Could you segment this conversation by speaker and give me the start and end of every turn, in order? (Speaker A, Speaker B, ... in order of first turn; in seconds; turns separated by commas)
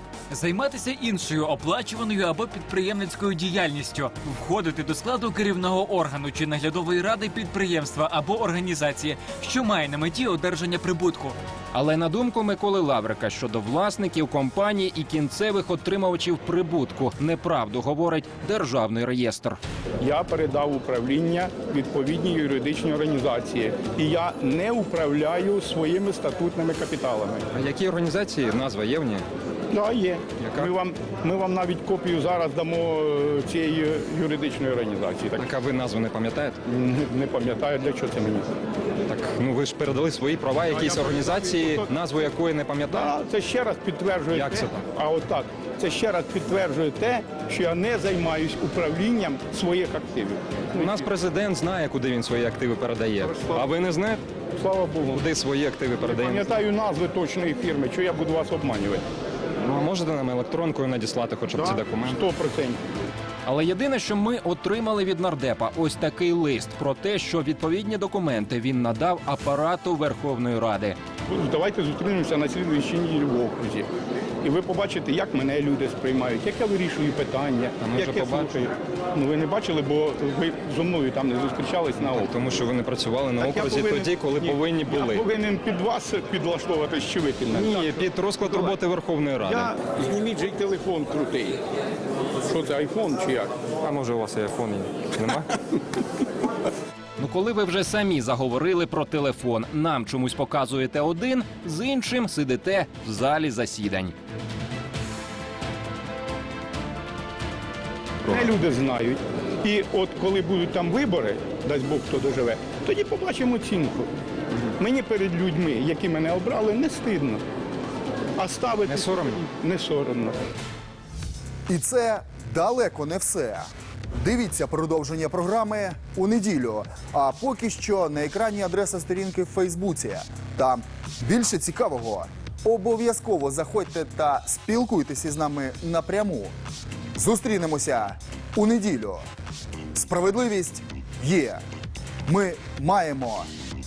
Speaker A: 0.3-11.4, Speaker B: 11.7-19.6, Speaker C: 20.0-27.5, Speaker D: 27.5-29.3, Speaker C: 29.7-35.5, Speaker D: 30.4-30.7, Speaker D: 35.4-36.6, Speaker C: 36.7-38.5, Speaker D: 39.1-43.1, Speaker C: 40.7-41.9, Speaker C: 42.9-51.1, Speaker D: 44.3-44.9, Speaker D: 50.8-54.2, Speaker C: 53.2-53.7, Speaker C: 54.6-55.2, Speaker D: 55.1-56.5, Speaker C: 56.0-59.0, Speaker D: 59.6-62.3, Speaker C: 61.5-62.8, Speaker B: 63.5-71.0, Speaker C: 71.3-73.9, Speaker C: 74.4-82.3, Speaker D: 77.8-78.7, Speaker D: 82.0-85.3, Speaker C: 83.4-88.8, Speaker D: 87.5-89.7, Speaker C: 89.4-91.6, Speaker C: 92.4-93.5, Speaker D: 93.8-95.5, Speaker B: 97.2-104.1, Speaker C: 108.3-114.1, Speaker C: 114.8-117.4, Speaker C: 118.4-120.4, Speaker D: 118.9-119.4, Speaker E: 121.7-136.5, Speaker E: 137.2-139.3, Speaker E: 139.9-141.6, Speaker E: 142.3-143.5